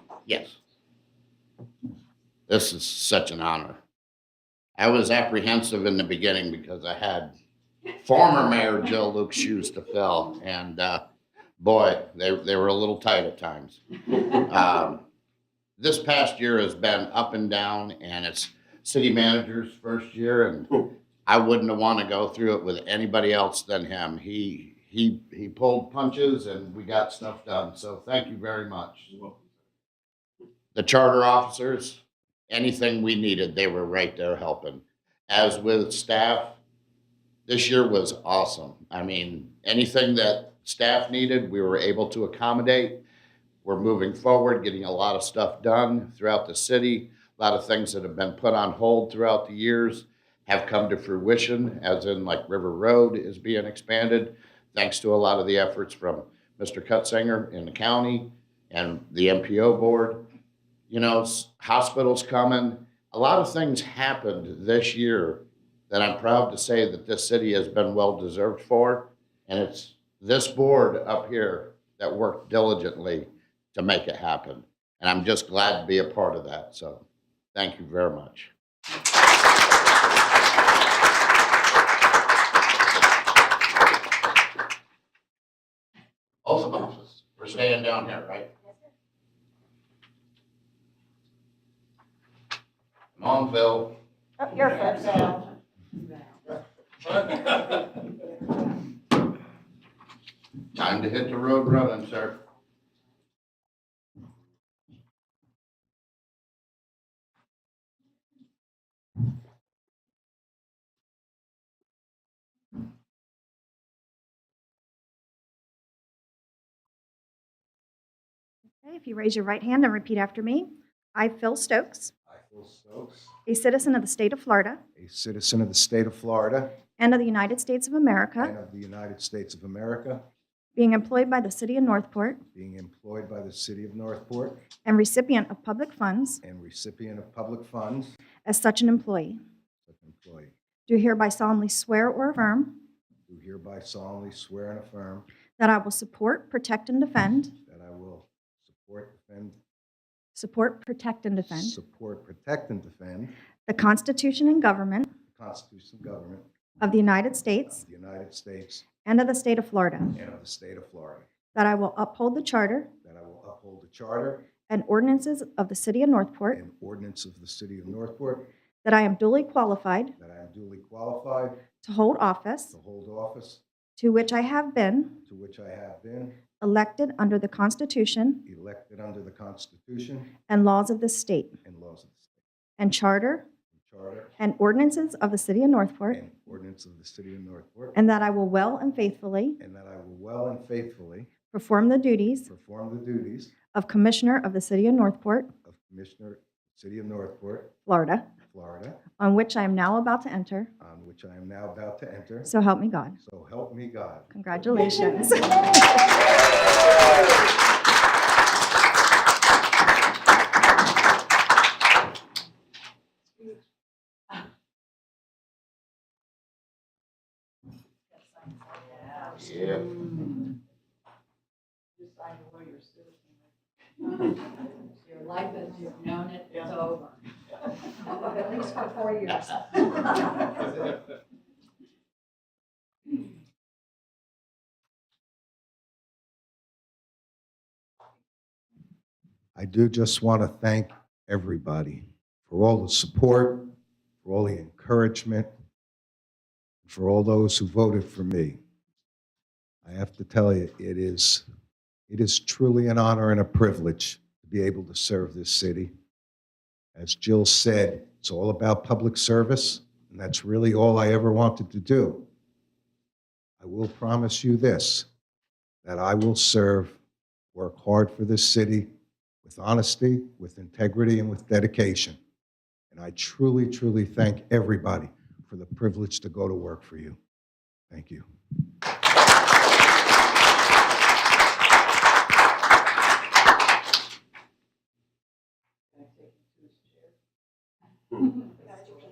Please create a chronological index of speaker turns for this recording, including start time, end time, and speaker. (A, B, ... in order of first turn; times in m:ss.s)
0:00.3-0:00.6 A
0:02.5-0:03.8 A
0:04.8-0:07.3 A
0:08.0-0:11.0 A
0:11.6-0:15.0 A
0:15.8-0:29.1 A
0:30.8-0:36.6 A
0:37.5-0:43.0 A
0:43.6-1:00.2 A
1:00.9-1:17.0 A
1:17.6-1:18.5 A
1:26.4-1:28.5 A
1:33.2-1:34.0 A
1:34.4-1:35.4 B
1:40.8-1:42.4 A
1:58.8-2:02.1 B
2:02.3-2:03.3 C
2:03.5-2:04.8 B
2:05.0-2:06.7 C
2:07.0-2:08.5 B
2:08.4-2:10.2 C
2:10.8-2:12.4 B
2:12.5-2:14.6 C
2:14.8-2:16.4 B
2:16.4-2:18.2 C
2:18.4-2:19.4 B
2:19.9-2:20.5 C
2:20.9-2:22.8 B
2:23.3-2:25.3 C
2:25.6-2:27.5 B
2:27.7-2:29.6 C
2:30.4-2:31.8 B
2:31.4-2:33.3 C
2:33.7-2:35.1 B
2:35.3-2:36.5 C
2:36.8-2:37.8 B
2:37.7-2:38.8 C
2:39.0-2:40.1 B
2:40.1-2:41.3 C
2:41.5-2:42.9 B
2:43.0-2:44.5 C
2:44.7-2:46.6 B
2:46.5-2:48.5 C
2:48.8-2:50.1 B
2:50.2-2:51.6 C
2:51.8-2:52.8 B
2:52.7-2:53.6 C
2:54.0-2:55.2 B
2:55.2-2:56.4 C
2:56.6-2:58.4 B
2:58.4-3:00.3 C
3:00.5-3:01.6 B
3:01.6-3:02.4 C
3:02.8-3:03.5 B
3:03.8-3:04.3 C
3:04.4-3:06.2 B
3:06.1-3:08.0 C
3:08.0-3:09.6 B
3:09.6-3:11.3 C
3:11.5-3:12.5 B
3:12.5-3:13.5 C
3:13.7-3:15.5 B
3:15.6-3:17.7 C
3:17.9-3:18.3 B
3:18.5-3:19.0 C
3:19.2-3:20.7 B
3:20.8-3:22.5 C
3:22.4-3:23.2 B
3:23.2-3:24.3 C
3:24.3-3:25.9 B
3:38.8-3:40.1 D
3:39.4-3:40.0 A
3:42.0-3:43.2 D
3:45.0-3:47.2 D
3:48.2-3:49.7 D
3:59.6-4:03.7 C
4:04.2-4:05.5 C
4:06.9-4:08.6 C
4:09.8-4:11.4 C
4:12.1-4:15.9 C
4:17.0-4:22.3 C
4:23.6-4:25.1 C
4:25.8-4:27.0 C
4:27.6-4:28.9 C
4:29.4-4:32.2 C
4:32.9-4:37.2 C
4:37.9-4:38.3 C
4:46.0-4:47.0 D